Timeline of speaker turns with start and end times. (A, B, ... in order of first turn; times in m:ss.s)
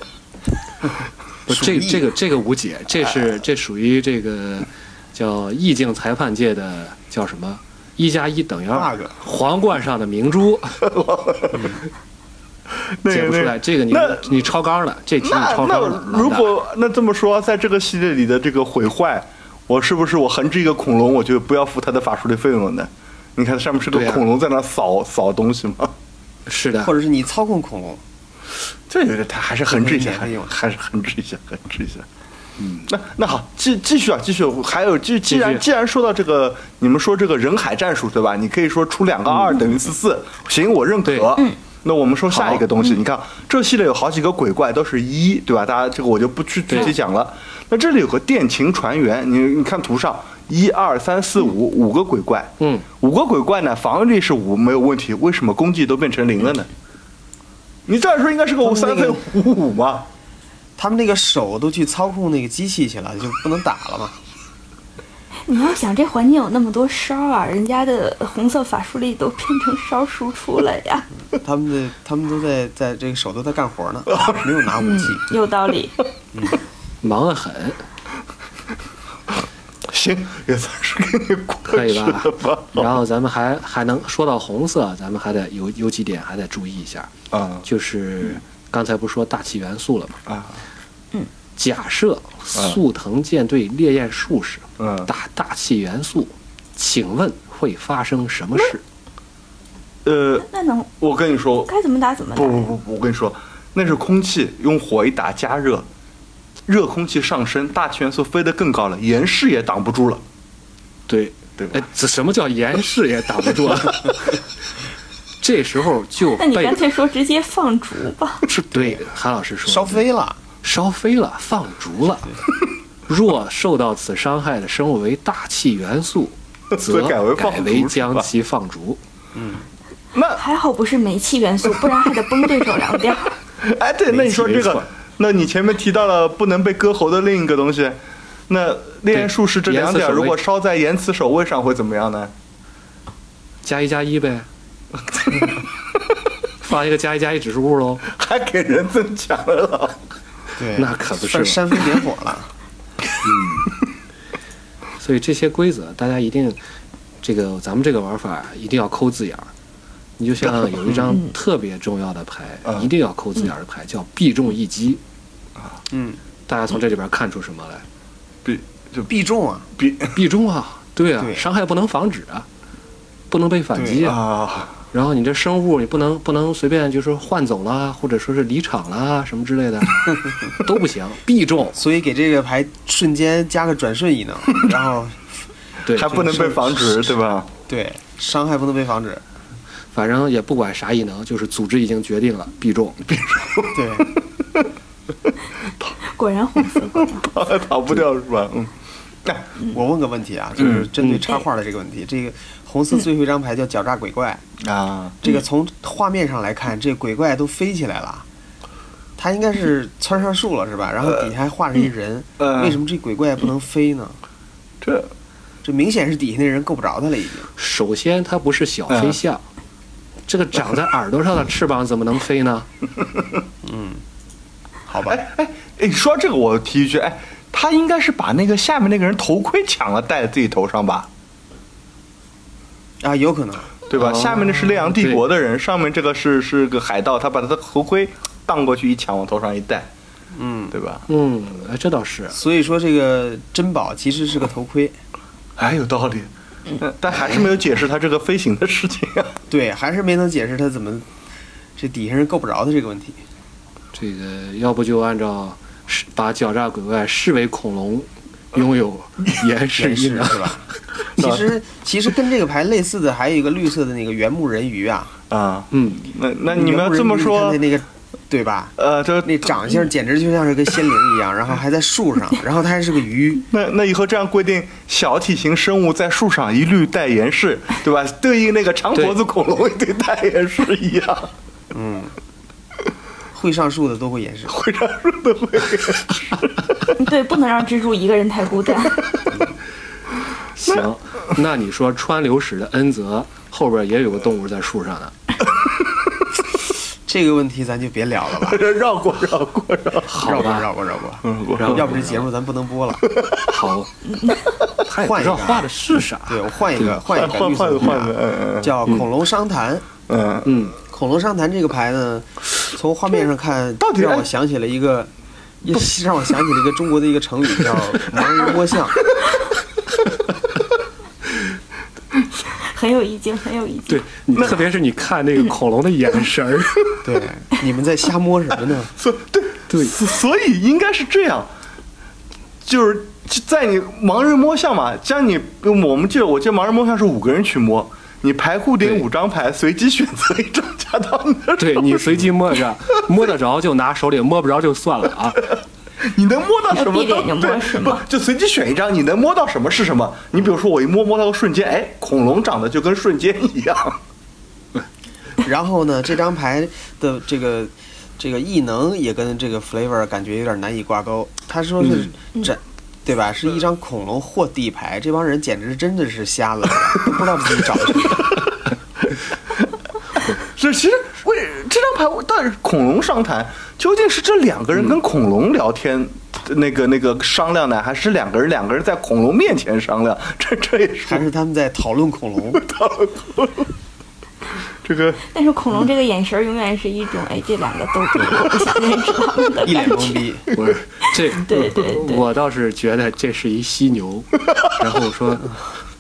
0:01.5-0:02.1 A
0:01.5-0:10.8 B
0:08.7-0:09.2 A
0:10.8-0:11.8 C
0:11.5-0:11.8 A
0:13.0-0:14.4 C
0:13.1-0:16.5 B
0:15.2-0:25.9 C
0:23.9-0:24.2 B
0:26.5-0:26.9 B
0:26.8-0:28.0 A
0:28.9-0:32.1 C
0:29.7-0:30.5 A
0:32.6-0:32.9 B
0:32.9-0:56.7 C
0:35.3-0:35.6 B
0:39.3-0:39.6 B
0:41.0-0:41.3 B
0:42.3-0:42.7 B
0:46.7-0:47.0 B
0:52.6-0:52.8 B
0:57.9-1:00.1 C
0:58.6-0:59.2 A
1:00.8-1:04.2 A
1:05.5-1:11.1 D
1:11.4-1:15.2 A
1:14.8-1:16.0 D
1:17.0-1:17.8 B
1:19.9-1:23.0 C
1:21.7-1:27.1 B
1:27.3-1:27.7 C
1:27.6-1:30.2 B
1:30.3-1:30.6 C
1:31.6-1:38.8 B
1:34.8-1:35.1 C
1:40.0-1:40.5 C
1:40.5-1:40.9 D
1:41.0-1:41.7 C
1:41.7-1:42.7 D
1:42.4-1:45.9 C
1:46.7-1:50.2 C
1:51.1-1:54.4 B
1:51.6-1:51.8 C
1:55.4-1:56.8 B
1:56.4-1:58.4 D
1:58.5-2:00.0 B
1:58.7-1:59.0 A
1:59.6-2:00.4 A
2:00.6-2:02.3 B
2:03.1-2:09.0 B
2:06.7-2:08.3 C
2:09.3-2:09.7 A
2:10.1-2:10.4 C
2:10.4-2:13.4 D
2:13.6-2:22.3 C
2:14.1-2:14.9 B
2:19.1-2:20.4 B
2:23.6-2:24.5 B
2:25.1-2:25.6 C
2:26.6-2:28.0 B
2:28.1-2:30.0 C
2:30.6-2:32.5 A
2:30.7-2:31.6 B
2:33.2-2:33.7 B
2:35.0-2:36.6 B
2:37.2-2:39.5 B
2:40.2-2:45.0 B
2:40.4-2:41.2 C
2:42.6-2:42.9 C
2:45.9-2:46.2 A
2:46.5-2:47.8 B
2:48.4-2:49.1 C
2:49.1-2:49.7 A
2:49.8-2:50.2 C
2:50.1-2:52.5 B
2:51.2-2:51.4 A
2:53.3-2:54.2 B
2:53.7-2:54.1 A
2:54.0-2:54.8 C
2:54.9-3:01.8 B
3:01.8-3:05.3 A
3:05.9-3:06.1 B
3:05.9-3:07.5 C
3:06.0-3:07.1 A
3:07.7-3:09.2 A
3:09.9-3:13.0 B
3:13.0-3:14.7 C
3:13.7-3:14.1 A
3:16.0-3:17.3 D
3:16.6-3:18.7 C
3:19.7-3:24.4 A
3:20.6-3:20.9 C
3:24.6-3:25.2 C
3:25.2-3:28.3 A
3:29.2-3:34.2 A
3:32.4-3:32.8 C
3:34.8-3:35.1 C
3:35.6-3:37.5 A
3:37.6-3:39.4 B
3:38.9-3:39.2 C
3:40.3-3:42.7 B
3:43.6-3:44.0 A
3:44.9-3:45.2 A
3:45.1-3:51.1 C
3:53.0-3:53.8 A
3:53.9-3:59.9 C
3:54.0-3:55.2 B
4:00.3-4:00.7 A
4:00.7-4:01.0 C
4:01.1-4:02.4 B
4:02.3-4:05.0 A
4:05.6-4:06.3 C
4:06.8-4:09.4 C
4:07.1-4:07.5 B
4:09.5-4:11.1 A
4:11.8-4:13.2 A
4:13.9-4:20.6 B
4:19.8-4:25.1 A
4:25.3-4:27.6 C
4:25.7-4:26.0 B
4:26.5-4:33.4 A
4:28.8-4:29.8 C
4:33.5-4:41.3 C
4:41.7-4:42.1 A
4:43.3-4:44.6 A
4:44.5-4:47.0 C
4:47.0-4:49.0 D
4:50.6-4:55.1 B
4:57.1-4:58.7 A
4:58.4-5:00.4 C
5:00.1-5:00.7 B
5:00.2-5:03.0 A
5:01.2-5:02.1 C
5:01.6-5:02.1 B
5:03.1-5:03.5 C
5:03.5-5:03.9 B
5:04.1-5:04.4 D
5:04.8-5:07.0 B
5:04.9-5:05.7 A
5:06.3-5:09.9 A
5:07.0-5:08.8 C
5:10.1-5:10.6 C
5:10.4-5:10.8 B
5:10.9-5:15.1 A
5:13.8-5:14.3 C
5:15.6-5:19.1 A
5:22.6-5:24.0 D
5:23.9-5:27.0 B
5:27.0-5:28.9 A
5:29.0-5:31.5 C
5:29.7-5:30.0 B
5:32.6-5:42.3 C
5:41.6-5:45.5 B
5:45.5-5:54.0 C
5:46.7-5:48.0 D
5:55.4-6:08.2 A
6:08.0-6:08.4 C
6:10.3-6:21.2 C
6:21.1-6:22.6 A
6:22.6-6:23.7 C
6:24.8-6:25.2 C
6:25.3-6:30.3 D
6:29.6-6:30.5 A
6:30.5-6:35.6 B
6:31.3-6:32.3 D